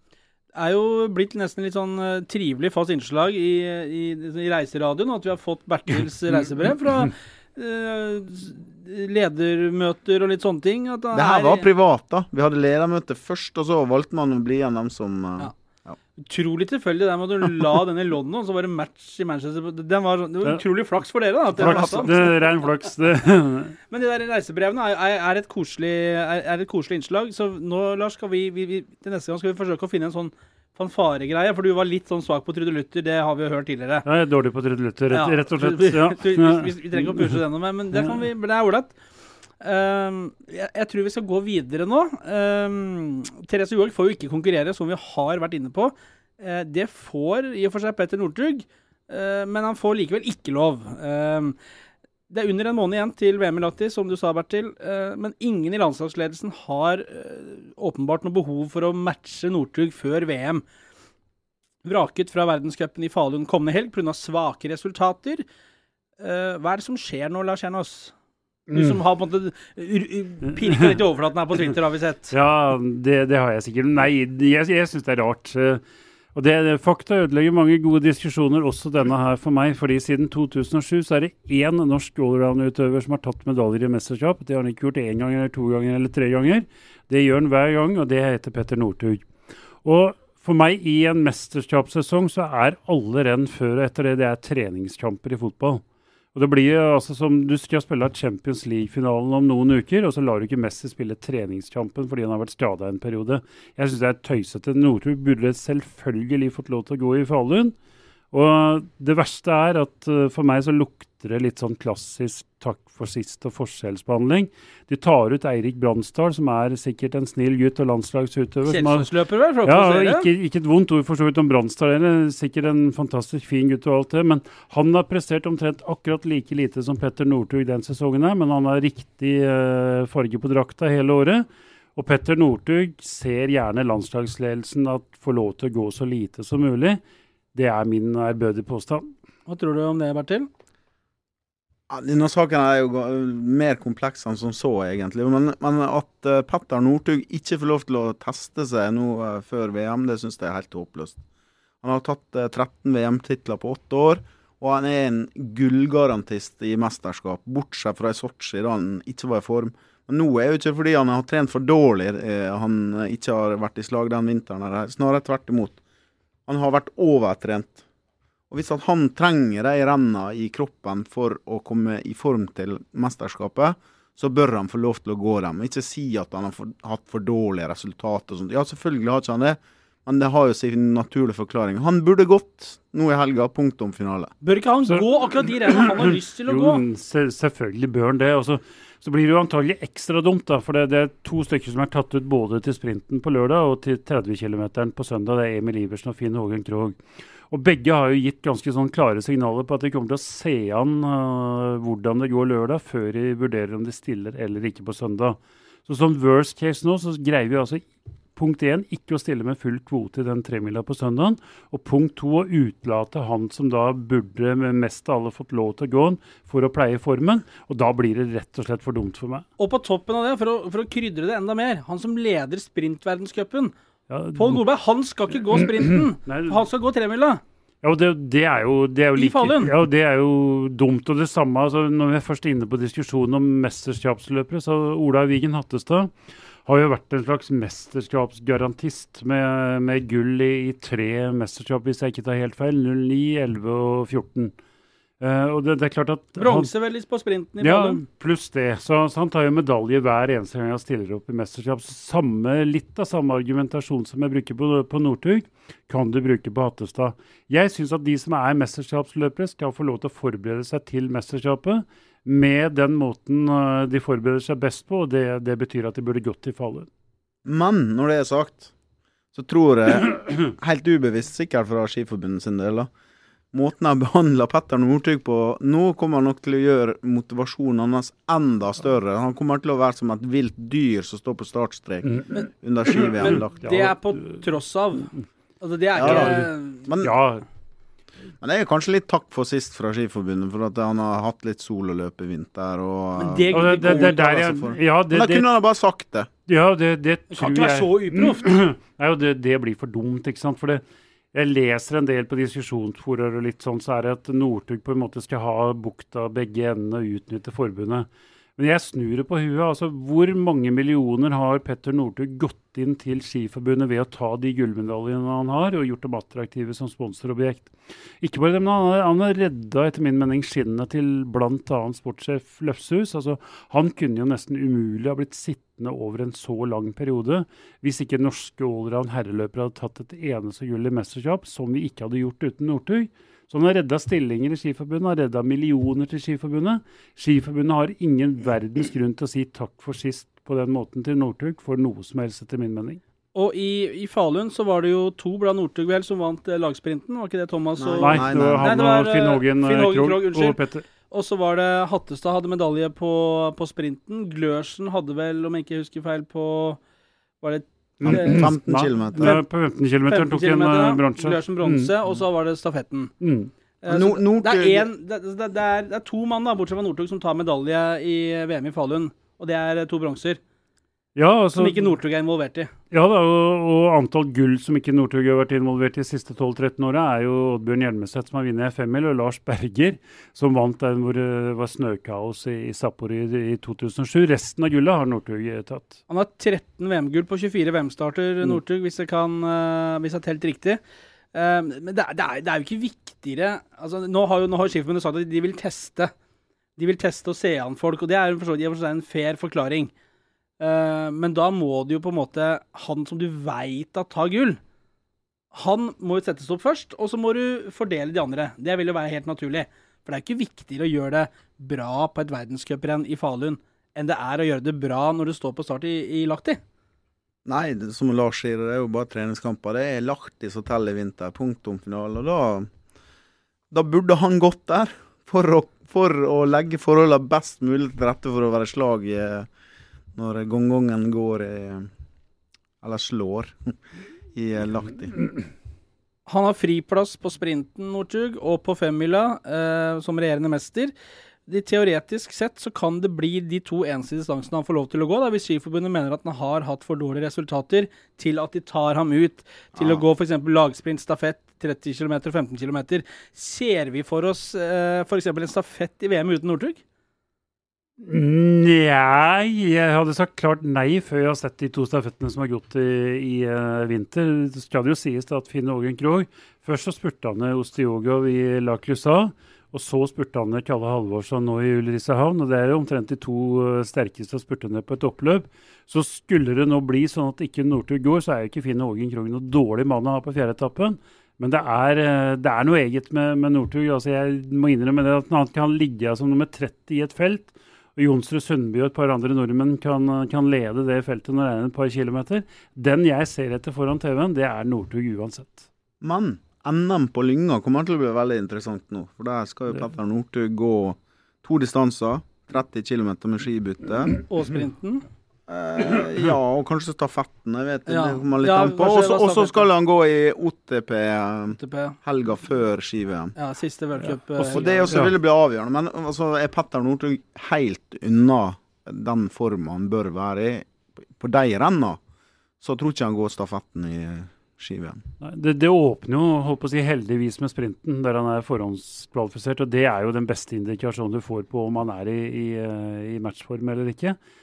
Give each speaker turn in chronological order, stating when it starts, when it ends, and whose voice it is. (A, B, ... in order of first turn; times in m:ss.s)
0:00.5-0:11.7 A
0:11.1-0:16.0 B
0:16.2-0:22.4 A
0:21.6-0:22.3 B
0:21.6-0:23.8 C
0:23.9-0:34.0 A
0:34.0-0:37.4 C
0:35.1-0:38.9 A
0:39.6-0:51.6 A
0:52.3-1:00.6 A
1:01.8-1:05.4 A
1:06.2-1:08.1 A
1:08.7-1:09.0 C
1:08.7-1:12.3 A
1:12.3-1:15.8 C
1:16.3-1:29.2 C
1:29.8-1:35.8 C
1:36.3-1:47.7 C
1:48.3-1:59.1 C
1:58.6-2:00.3 A
1:59.6-2:17.0 C
2:17.5-2:19.1 C
2:19.5-2:20.5 A
2:21.9-2:31.2 B
2:31.8-2:45.8 B
2:46.5-2:47.8 B
2:48.5-3:04.3 B
3:04.4-3:06.8 A
3:04.9-3:39.4 C
3:39.6-3:43.7 A
3:44.1-3:44.6 C
3:44.4-3:47.4 A
3:45.5-3:46.6 C
3:47.8-3:56.1 C
3:49.2-3:49.7 A
3:56.6-4:04.5 C
4:05.2-4:06.7 C
4:06.4-4:08.0 A
4:07.6-4:26.9 C
4:27.4-4:28.7 B
4:29.3-4:32.9 B
4:33.5-4:43.6 B
4:42.3-4:46.9 A
4:43.6-4:44.5 C
4:46.0-4:47.1 B
4:46.0-4:47.4 C
4:48.4-4:56.3 B
4:53.2-4:54.3 A
4:53.5-4:55.5 C
4:56.5-5:00.8 C
4:57.3-4:58.5 A
5:01.3-5:43.0 C
5:43.3-5:50.6 A
5:47.8-5:48.7 B
5:48.0-5:50.8 C
5:51.1-5:56.8 A
5:57.4-5:58.5 A
5:58.0-6:01.9 C
5:58.0-5:59.4 B
6:00.1-6:03.1 A
6:03.2-6:03.5 C
6:03.8-6:10.4 A
6:03.9-6:04.9 B
6:11.2-6:11.9 C
6:11.6-6:12.7 A
6:12.9-6:26.0 C
6:26.1-6:30.8 A
6:31.3-6:36.1 A
6:36.8-6:39.9 A
6:40.6-6:44.6 A
6:45.5-6:56.6 A
6:57.4-7:02.7 B
7:03.7-7:09.5 B
7:10.1-7:11.9 B
7:12.8-7:13.8 B
7:14.3-7:15.1 B
7:16.3-7:20.9 A
7:21.5-7:36.8 A
7:29.7-7:30.0 B
7:38.0-8:15.7 C
8:16.0-8:24.2 B
8:24.2-8:25.0 A
8:25.5-8:33.3 B
8:27.9-8:29.7 A
8:31.6-8:32.0 A
8:33.4-8:35.0 A
8:34.4-8:35.1 C
8:34.5-8:42.0 B
8:42.6-8:45.0 B
8:45.2-8:54.2 C